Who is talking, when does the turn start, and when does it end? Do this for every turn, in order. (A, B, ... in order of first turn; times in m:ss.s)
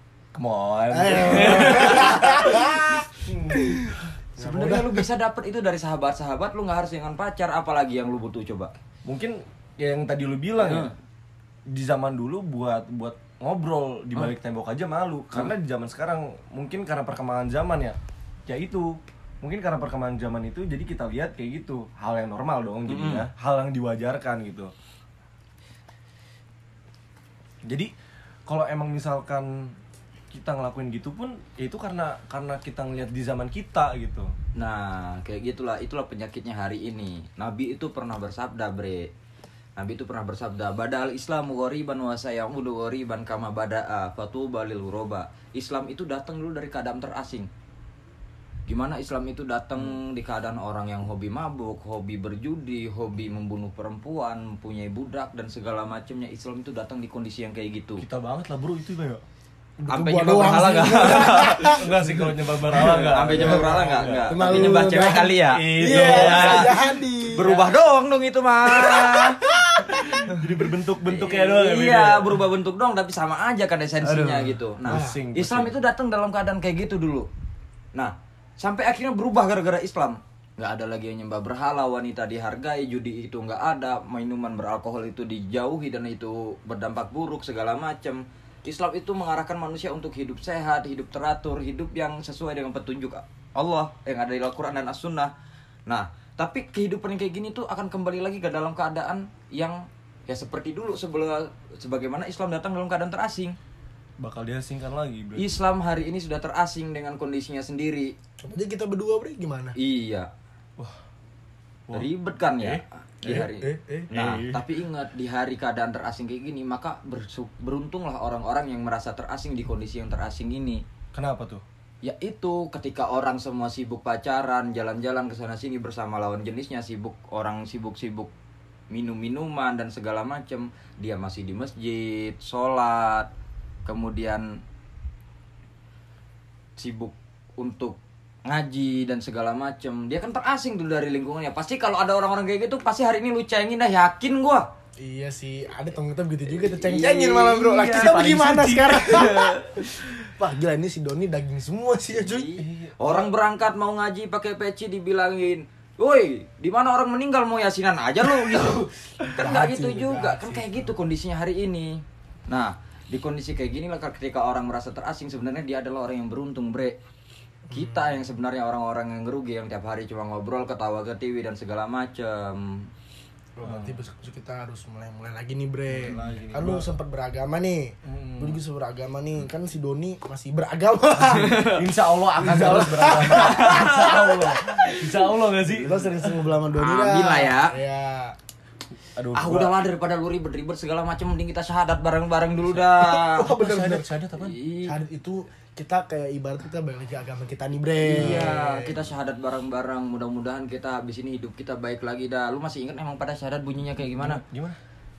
0:00.3-0:04.0 A
0:00.9-0:05.0 B
0:01.8-0:02.4 C
0:04.4-0:08.7 C
0:09.0-0:10.9 A
0:10.6-0:10.9 C
0:11.7-0:24.7 A
0:22.9-0:23.3 C
0:27.6-0:27.9 A
0:28.5-0:29.7 A
0:30.3-0:34.3 A
0:34.6-0:39.1 C
0:39.8-0:47.5 C
0:48.7-0:58.0 C
0:58.0-0:59.2 A
0:59.8-1:07.7 B
0:59.9-1:01.8 C
1:01.1-1:04.9 A
1:02.7-1:10.4 C
1:05.4-1:06.8 A
1:08.7-1:10.3 B
1:10.0-1:12.4 A
1:11.1-1:17.3 C
1:14.0-1:15.7 A
1:14.9-1:15.2 B
1:17.9-1:35.3 C
1:35.9-1:43.5 C
1:44.2-1:45.6 A
1:45.4-1:48.1 C
1:48.4-1:49.8 B
1:49.8-1:50.3 C
1:51.9-1:54.6 A
1:51.9-2:00.8 C
2:01.1-2:01.6 A
2:02.0-2:08.3 C
2:08.9-2:13.3 C
2:13.8-2:14.6 C
2:16.8-2:24.7 C
2:25.0-2:32.5 B
2:26.5-2:30.1 A
2:32.2-2:47.0 C
2:32.6-2:33.3 A
2:39.4-2:40.9 B
2:47.7-2:48.2 B
2:47.7-2:52.9 C
2:53.6-3:04.7 B
2:53.6-2:54.0 A
2:55.9-2:56.9 A
2:58.0-2:58.6 A
3:01.3-3:01.8 C
3:01.3-3:06.5 A
3:03.2-3:05.0 C
3:05.7-3:08.4 B
3:06.7-3:07.8 C
3:09.2-3:09.7 A
3:09.3-3:13.4 C
3:12.6-3:14.6 A
3:13.2-3:14.1 B
3:14.4-3:15.0 C
3:14.8-3:18.8 B
3:18.0-3:24.4 C
3:18.1-3:18.5 A
3:24.2-3:24.8 A